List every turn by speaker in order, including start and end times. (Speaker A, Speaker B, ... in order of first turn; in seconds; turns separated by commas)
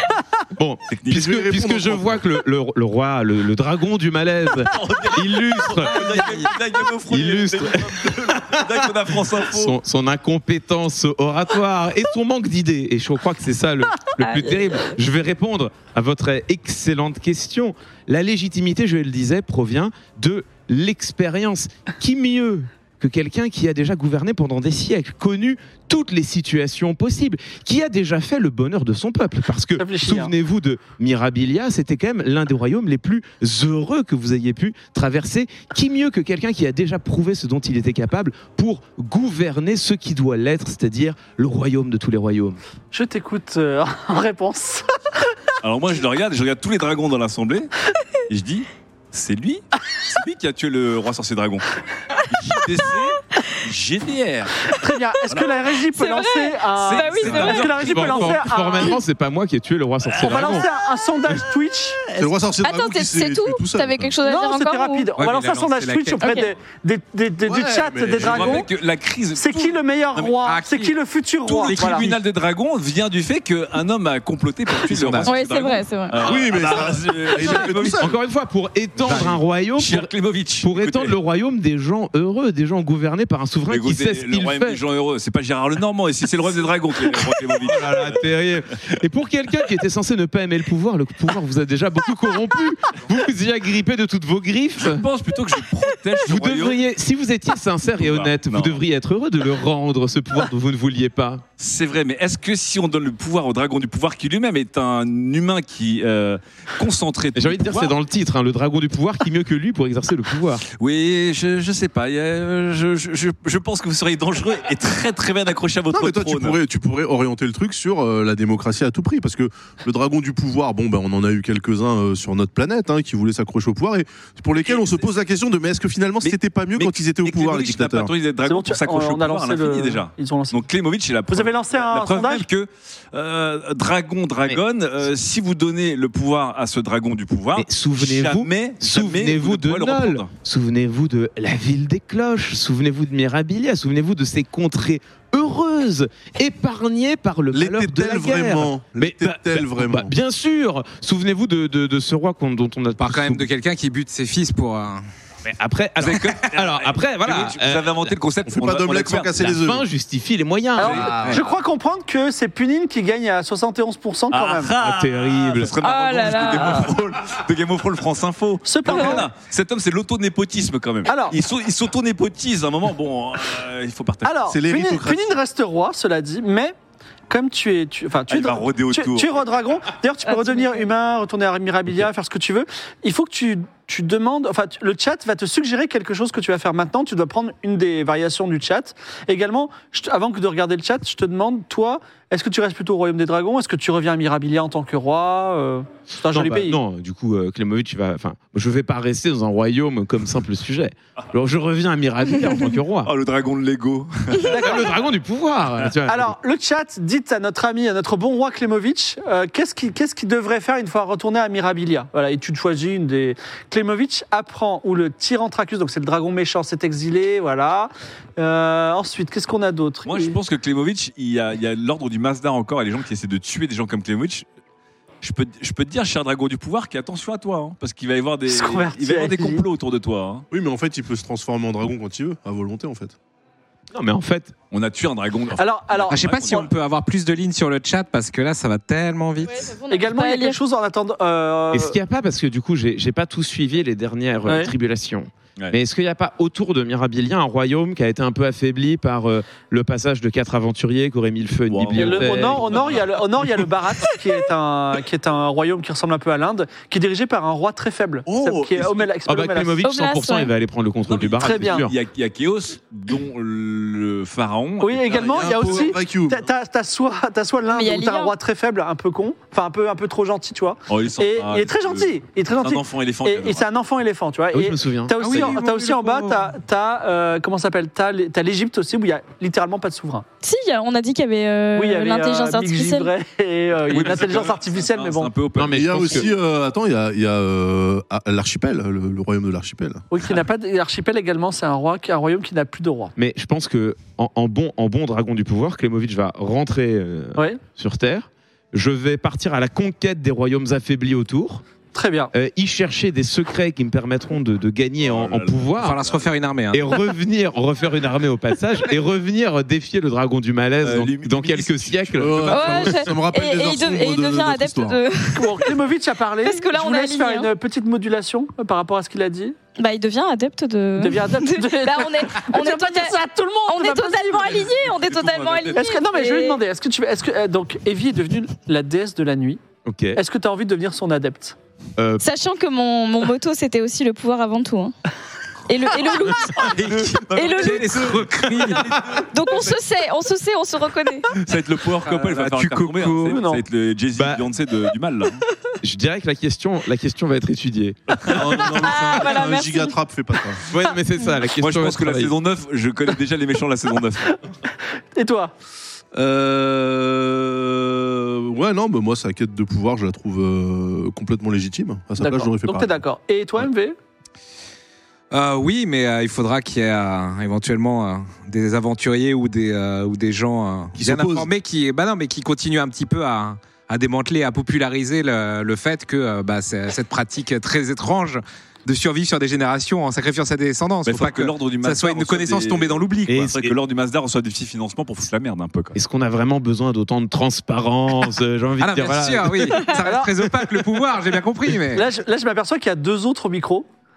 Speaker A: 0.6-42.6, Speaker B: 0.9-2.0, Speaker C: 1.1-2.2, Speaker B: 4.6-9.8, Speaker D: 6.0-6.3, Speaker E: 14.2-14.9, Speaker F: 29.8-30.3, Speaker F: 42.9-44.9, Speaker B: 45.6-47.7, Speaker B: 48.3-51.7, Speaker B: 52.3-54.7, Speaker F: 54.7-59.0, Speaker B: 55.3-55.6, Speaker E: 55.9-57.9, Speaker B: 56.8-58.6, Speaker A: 57.7-60.7, Speaker B: 60.0-60.6, Speaker F: 60.2-62.1, Speaker C: 62.2-64.2, Speaker E: 62.6-65.1, Speaker F: 64.2-68.7, Speaker D: 65.2-66.4, Speaker E: 66.2-66.5, Speaker C: 67.4-68.6, Speaker B: 68.2-70.4, Speaker F: 69.3-72.1, Speaker D: 70.4-70.9, Speaker B: 71.5-78.2, Speaker D: 71.7-72.1, Speaker A: 74.9-75.2, Speaker E: 75.2-76.3, Speaker C: 76.2-78.2, Speaker A: 78.0-80.1, Speaker B: 79.0-81.2, Speaker A: 80.6-84.8, Speaker B: 83.7-88.4, Speaker A: 87.5-95.0, Speaker B: 94.8-96.8, Speaker A: 96.2-101.4, Speaker B: 97.9-98.8, Speaker B: 101.6-107.9, Speaker A: 107.3-110.6, Speaker B: 110.7-116.6, Speaker C: 115.9-128.1, Speaker B: 124.6-125.0, Speaker B: 126.2-140.3, Speaker F: 128.4-130.6, Speaker F: 131.3-132.5, Speaker A: 137.6-153.4, Speaker C: 147.5-150.1, Speaker D: 153.0-155.0, Speaker A: 155.4-158.1, Speaker B: 156.0-159.6, Speaker C: 158.4-159.8, Speaker A: 159.5-161.3, Speaker F: 160.8-164.7, Speaker B: 160.8-161.4, Speaker C: 161.0-161.4, Speaker B: 164.3-174.5, Speaker A: 164.8-165.8, Speaker E: 165.8-166.9, Speaker F: 168.6-169.3, Speaker E: 168.9-169.2, Speaker F: 171.1-171.4, Speaker F: 174.2-176.7, Speaker C: 174.5-175.4, Speaker F: 177.3-196.8, Speaker B: 178.3-179.4, Speaker E: 180.2-180.8, Speaker A: 196.3-203.1, Speaker B: 203.0-204.6, Speaker F: 204.4-204.9, Speaker A: 204.5-206.3, Speaker F: 206.1-220.4, Speaker B: 220.0-224.4, Speaker B: 225.2-230.4, Speaker F: 228.5-229.6, Speaker C: 230.5-233.1, Speaker A: 233.9-234.5, Speaker B: 234.7-236.7, Speaker F: 235.6-236.7, Speaker D: 236.1-239.7, Speaker E: 239.4-240.6, Speaker F: 239.9-242.0, Speaker A: 241.7-252.8, Speaker F: 244.4-244.7, Speaker B: 251.7-253.7, Speaker F: 251.9-259.8, Speaker B: 258.3-259.1, Speaker A: 259.2-261.9, Speaker E: 259.8-260.5, Speaker B: 261.1-265.9, Speaker F: 261.4-261.9, Speaker F: 264.8-280.2, Speaker C: 265.1-266.5, Speaker E: 267.7-268.3, Speaker B: 270.9-273.7, Speaker A: 274.5-275.6, Speaker D: 275.2-276.5, Speaker E: 280.4-283.1, Speaker F: 281.7-285.3, Speaker B: 283.9-286.3, Speaker A: 285.6-286.3, Speaker C: 285.7-290.0, Speaker F: 290.1-293.1, Speaker A: 293.1-301.6, Speaker F: 301.9-302.3, Speaker A: 302.3-306.0, Speaker B: 305.0-306.3, Speaker D: 305.8-306.9, Speaker A: 306.7-312.8, Speaker B: 310.8-313.0, Speaker C: 312.2-315.0, Speaker E: 312.5-315.8, Speaker F: 315.3-319.6, Speaker E: 316.4-317.5, Speaker E: 319.8-323.1, Speaker F: 321.0-324.7, Speaker E: 323.7-326.6, Speaker B: 324.6-325.8, Speaker F: 325.7-329.6, Speaker A: 329.8-330.2, Speaker F: 330.1-331.6, Speaker A: 332.0-332.3, Speaker E: 332.2-334.9, Speaker E: 335.7-337.9, Speaker B: 336.4-339.7, Speaker D: 336.6-338.9, Speaker E: 339.3-341.3, Speaker B: 341.3-345.4, Speaker D: 342.0-343.4, Speaker F: 343.2-343.6, Speaker A: 344.1-344.4, Speaker A: 345.8-348.7, Speaker C: 348.3-350.6, Speaker B: 348.3-348.7, Speaker E: 348.7-349.9, Speaker A: 350.6-352.3, Speaker B: 351.6-354.5, Speaker F: 355.1-355.5, Speaker C: 356.1-363.0, Speaker F: 362.2-363.9, Speaker D: 365.3-383.3, Speaker C: 370.9-371.5, Speaker B: 381.0-386.0, Speaker A: 383.3-383.7, Speaker A: 385.9-389.9, Speaker D: 388.8-392.1, Speaker F: 390.0-390.8, Speaker F: 391.9-393.9